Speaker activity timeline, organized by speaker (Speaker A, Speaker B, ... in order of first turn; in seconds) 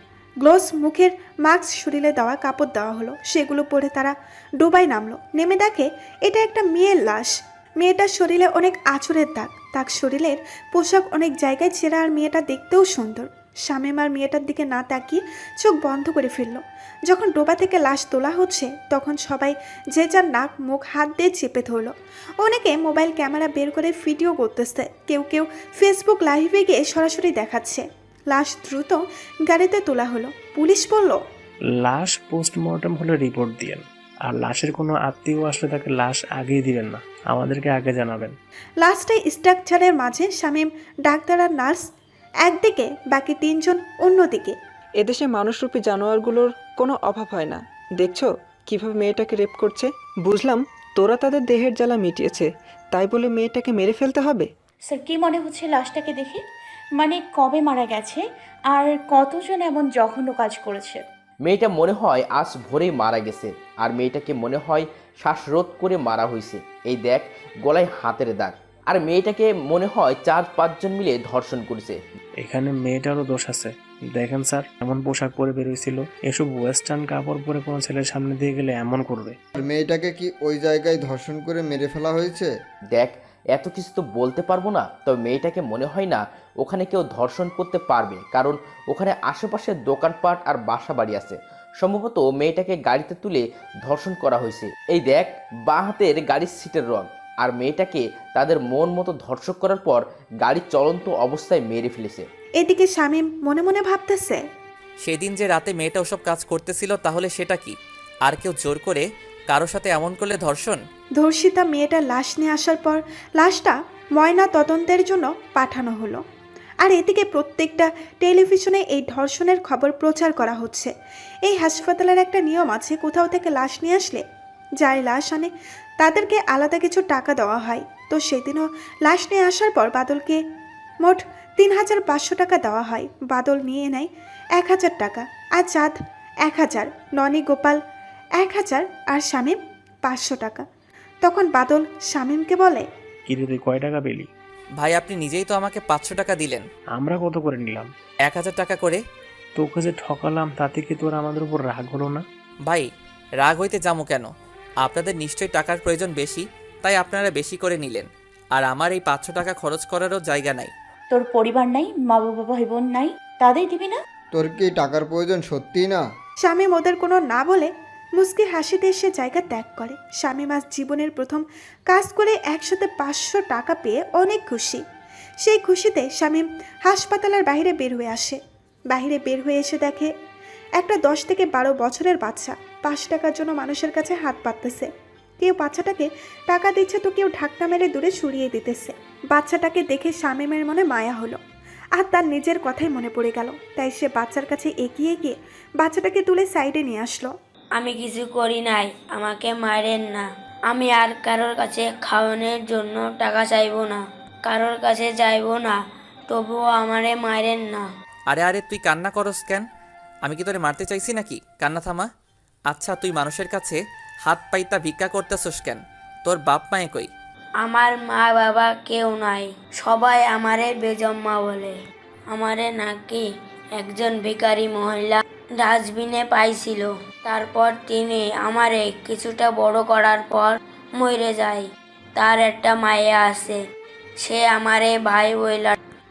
Speaker A: 0.4-31.2, 38.8-41.8, 42.4-44.6, 102.6-104.4, 111.2-116.2, 116.8-120.9, 121.5-124.2, 124.8-130.4, 131.0-137.8, 138.4-140.7, 141.2-142.9, 166.4-174.8, 175.4-178.4, 178.9-180.1, 180.8-184.9, 185.4-191.4, 192.0-197.3
Speaker B: 31.8-38.4, 72.4-79.4, 143.3-144.3, 146.9-147.9, 149.6-152.2
Speaker C: 45.0-54.5
Speaker D: 54.9-56.4, 57.0-61.0, 161.1-164.0
Speaker E: 61.4-72.0, 82.9-102.3
Speaker F: 79.6-82.5, 164.3-166.0
Speaker G: 105.0-107.8, 108.3-110.8, 144.8-146.6, 148.3-149.0, 152.7-154.3, 154.8-160.7, 208.3-209.7, 210.2-212.1, 212.7-217.1
Speaker H: 197.8-207.9, 217.6-221.8, 222.3-233.6, 234.2-235.8